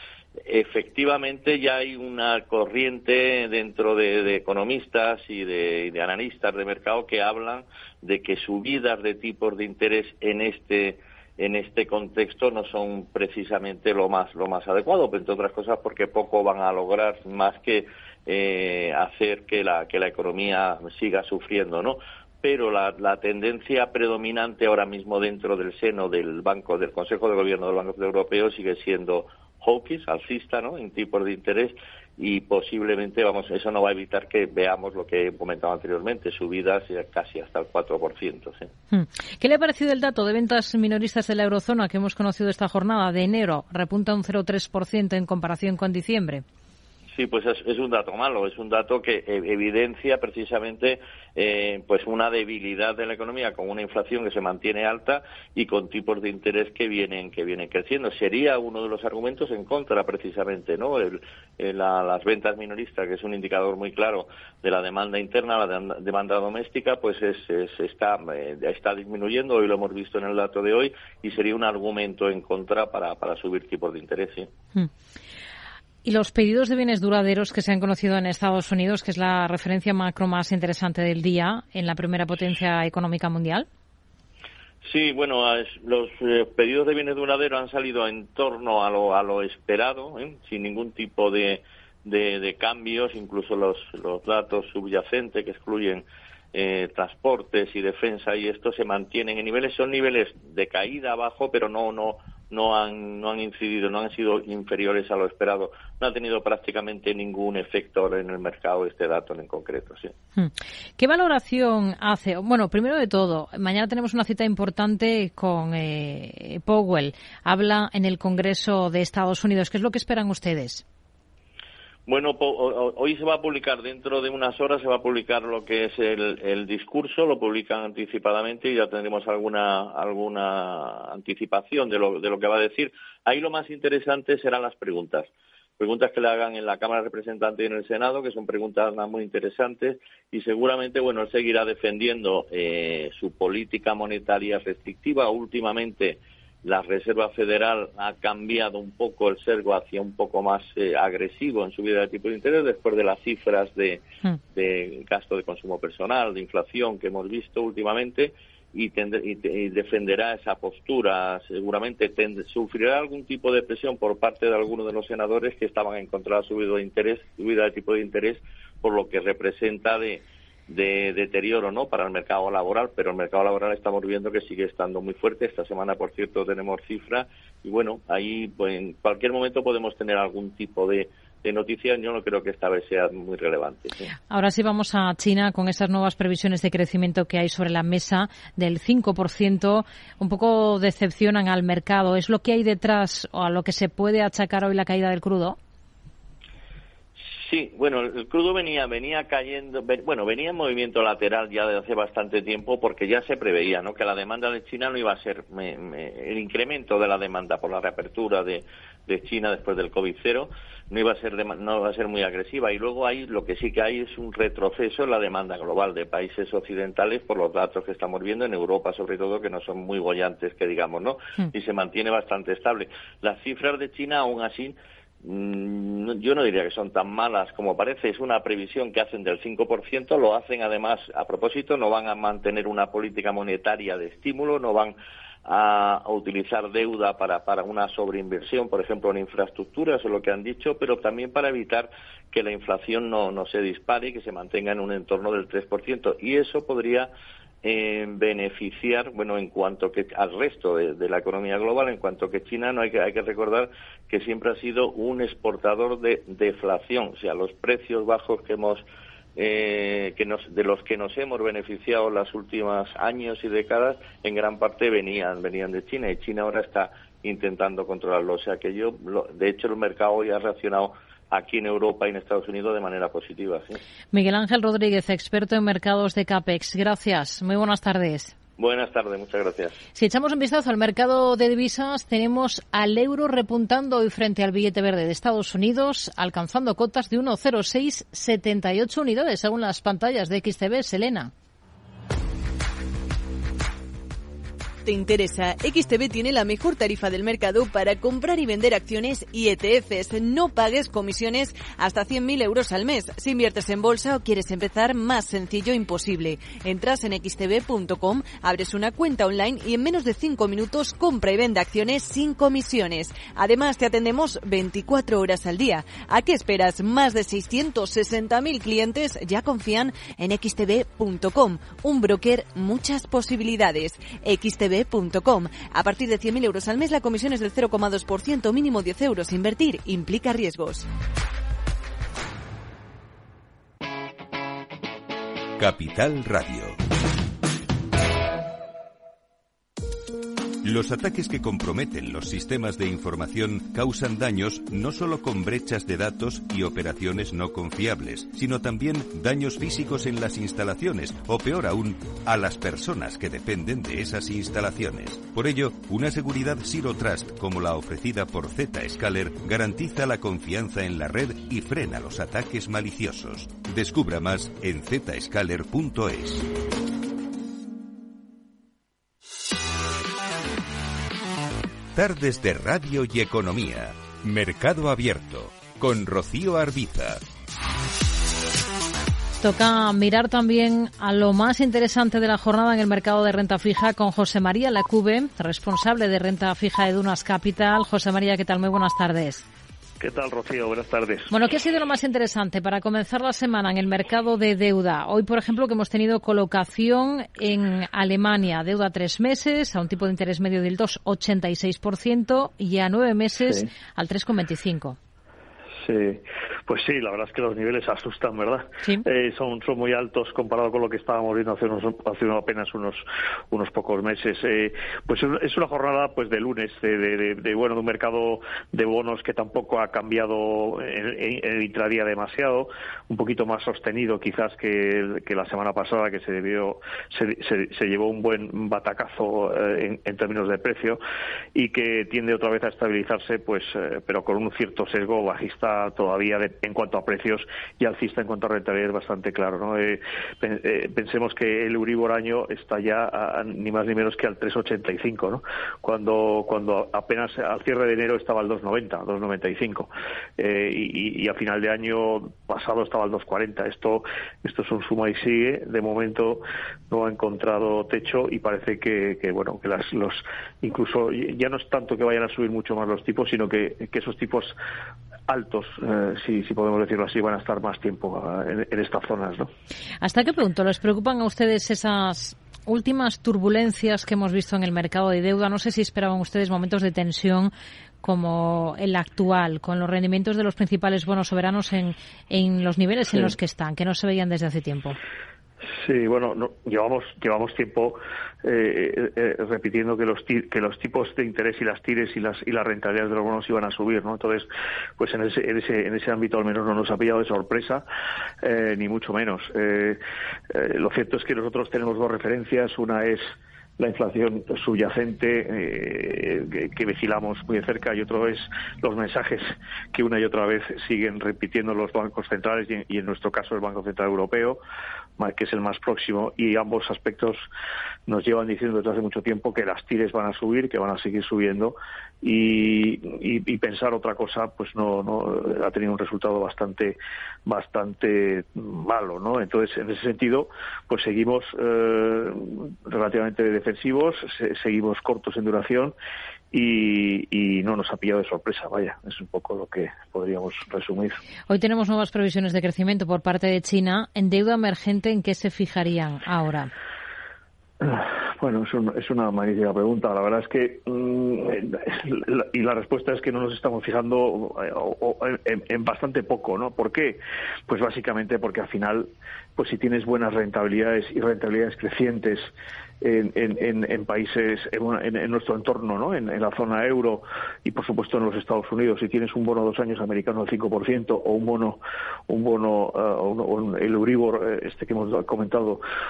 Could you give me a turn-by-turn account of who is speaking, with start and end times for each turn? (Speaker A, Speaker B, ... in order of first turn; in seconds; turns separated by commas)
Speaker A: 0.4-38.7, Speaker B: 38.9-46.4, Speaker A: 47.1-74.5, Speaker B: 76.0-83.7, Speaker A: 84.8-110.1, Speaker B: 110.4-120.8, Speaker A: 122.1-184.1, Speaker B: 184.3-195.6, Speaker A: 197.3-247.1, Speaker A: 247.6-258.8, Speaker A: 259.4-273.8, Speaker B: 274.1-278.3, Speaker A: 278.6-279.8, Speaker B: 279.9-291.3, Speaker C: 294.9-330.9, Speaker D: 335.6-336.8, Speaker D: 340.6-366.5, Speaker D: 371.9-377.2, Speaker B: 379.4-389.4, Speaker E: 390.0-391.3, Speaker B: 391.3-405.0, Speaker E: 403.4-403.7, Speaker E: 405.8-431.0, Speaker E: 431.6-464.6, Speaker E: 465.3-469.5, Speaker B: 470.0-477.5, Speaker B: 478.0-485.0, Speaker E: 485.7-494.5, Speaker E: 495.0-497.9, Speaker E: 498.4-500.0, Speaker E: 500.5-514.6, Speaker E: 515.2-517.5, Speaker E: 518.1-536.0, Speaker E: 536.5-541.2, Speaker B: 541.5-546.7, Speaker E: 547.8-562.5, Speaker E: 563.0-575.8